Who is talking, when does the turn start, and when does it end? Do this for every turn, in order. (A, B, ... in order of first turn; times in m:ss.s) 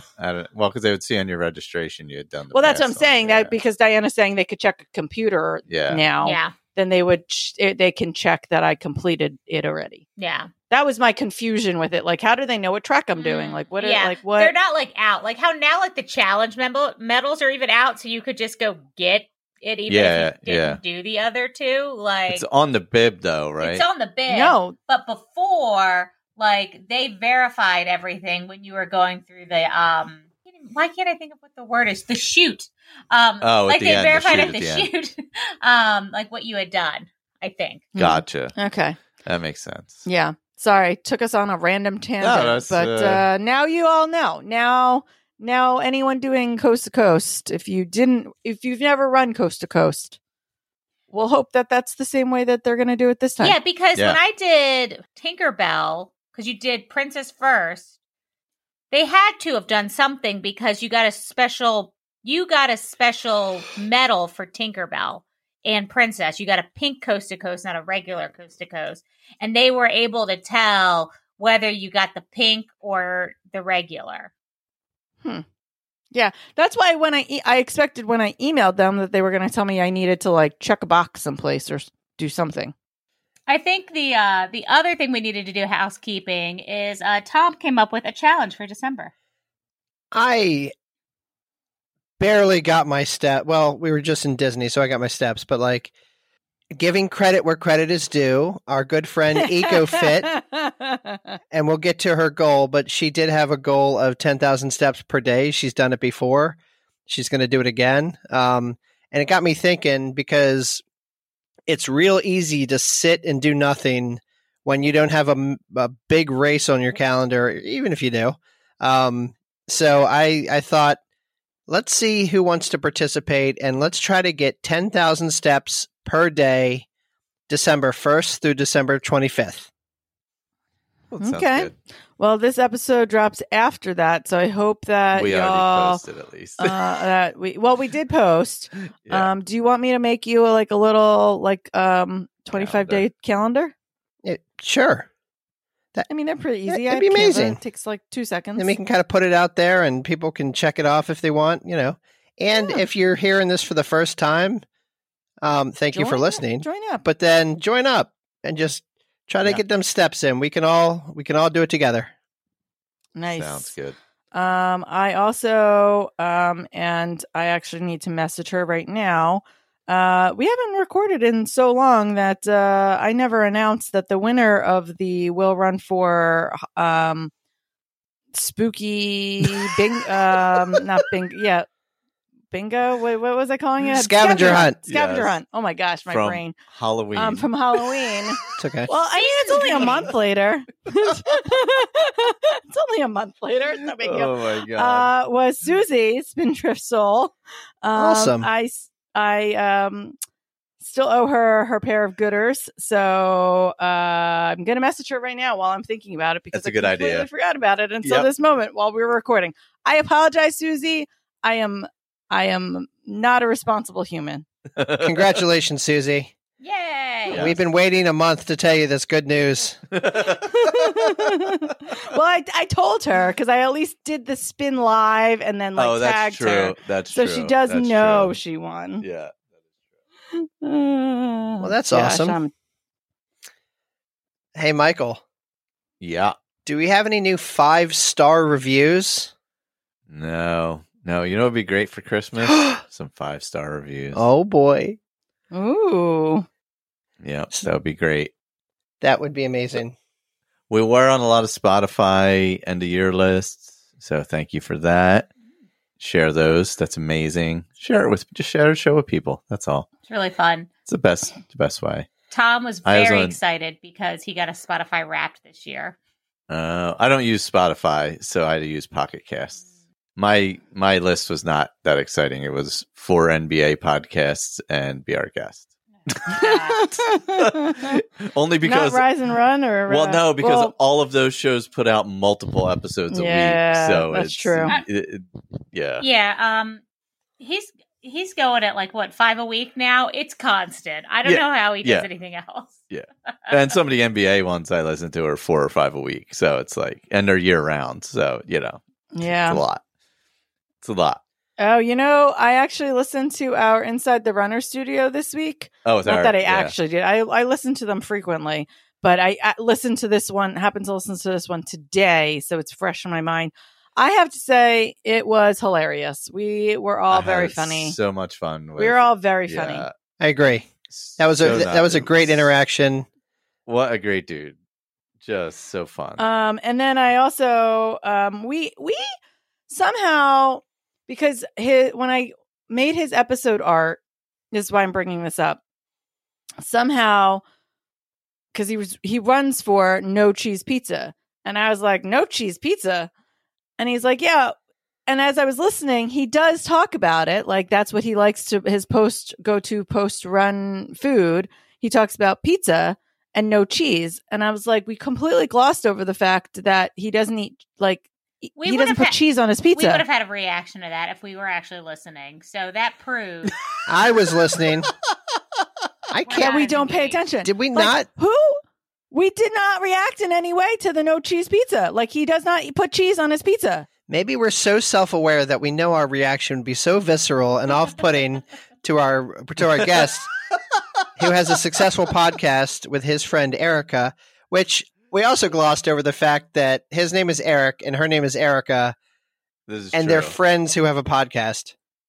0:00.2-0:03.5 A
0:02.5-0:10.0 B
0:05.7-0:06.0 A
0:06.2-0:06.5 C
0:10.2-0:10.5 C
0:10.7-0:14.5 B
0:13.2-0:22.4 C
0:19.9-0:20.8 A
0:22.3-0:23.8 A
0:23.6-0:37.9 C
0:24.3-0:24.8 B
0:33.4-0:34.9 A
0:37.9-0:39.0 B
0:38.0-0:38.6 A
0:39.2-0:40.0 A
0:40.0-0:50.2 B
0:42.2-0:43.2 A
0:51.1-0:53.6 B
0:53.4-0:57.9 C
0:58.9-1:14.3 C
1:16.1-1:22.7 B
1:23.5-1:29.1 C
1:30.1-1:30.7 D
1:32.2-1:35.9 D
1:36.8-1:40.4 D
1:39.4-1:41.2 B
1:41.5-1:50.8 D
1:51.7-2:01.0 D
2:01.7-2:06.8 D
2:07.5-2:09.7 D
2:11.1-2:11.7 A
2:11.2-2:16.0 B
2:15.1-2:16.9 A
2:16.6-2:23.7 B
2:19.0-2:19.3 A
2:22.5-2:23.0 A
2:24.2-2:25.1 D
2:26.1-2:28.7 B
2:26.7-2:27.6 D
2:28.6-2:34.6 D
2:32.5-2:32.8 B
2:35.4-2:42.1 D
2:35.9-2:37.0 B
2:43.2-2:43.7 B
2:43.3-2:44.0 A
2:44.3-2:57.3 B
2:58.3-3:01.7 B
3:02.5-3:06.6 B
3:03.9-3:04.8 D
3:04.3-3:05.4 A
3:06.1-3:07.5 A
3:07.1-3:20.2 B
3:08.6-3:08.9 D
3:09.1-3:10.1 C
3:14.0-3:15.1 A
3:17.9-3:18.5 D
3:20.8-3:34.4 B
3:26.5-3:27.3 A
3:28.0-3:28.3 A
3:34.8-3:35.3 A
3:35.0-3:36.3 D
3:36.6-3:37.5 C
3:37.3-3:37.6 A
3:37.3-3:39.8 D
3:39.9-3:41.3 A
3:40.4-3:49.0 B
3:45.8-3:48.4 A
3:49.0-3:49.4 A
3:50.3-3:52.5 B
3:51.6-3:52.4 D
3:54.5-3:55.2 D
3:56.0-3:56.4 A
3:56.6-3:59.3 D
4:00.1-4:04.2 A
4:02.4-4:02.8 D
4:04.1-4:05.0 D
4:05.5-4:06.4 B
4:07.2-4:08.3 A
4:09.0-4:10.0 D
4:10.7-4:15.3 A
4:16.0-4:19.9 A
4:20.1-4:20.7 C
4:20.8-4:22.1 A
4:22.3-4:26.0 C
4:22.8-4:23.4 A
4:26.5-4:29.6 A
4:30.2-4:35.6 A
4:36.1-4:36.8 C
4:36.3-4:39.0 A
4:36.3-4:38.0 B
4:38.6-4:40.7 B
4:39.9-4:46.0 A
4:43.1-4:44.7 B
4:46.0-4:46.8 C
4:47.4-4:52.8 C
4:51.2-4:52.0 A
4:52.9-4:59.8 A
4:59.1-4:59.6 B
5:00.8-5:01.2 A
5:01.6-5:18.0 B
5:05.8-5:06.7 A
5:17.1-5:19.9 A
5:18.8-5:19.8 B
5:20.2-5:23.0 D
5:20.9-5:22.5 A
5:23.6-5:24.6 A
5:25.2-5:26.2 A
5:26.2-5:29.1 B
5:29.7-5:34.0 B
5:34.5-5:35.6 B
5:36.6-5:37.4 B
5:38.5-5:43.1 B
5:43.8-5:44.6 B
5:45.1-6:00.0 B
5:58.6-5:59.2 C
5:59.7-6:03.6 C
6:03.8-6:04.9 D
6:06.1-6:06.5 D
6:06.2-6:07.2 C
6:06.3-6:08.6 B
6:07.4-6:08.1 D
6:09.1-6:13.9 B
6:14.1-6:20.3 D
6:21.2-6:29.0 D
6:29.7-6:30.4 A
6:29.9-6:31.7 D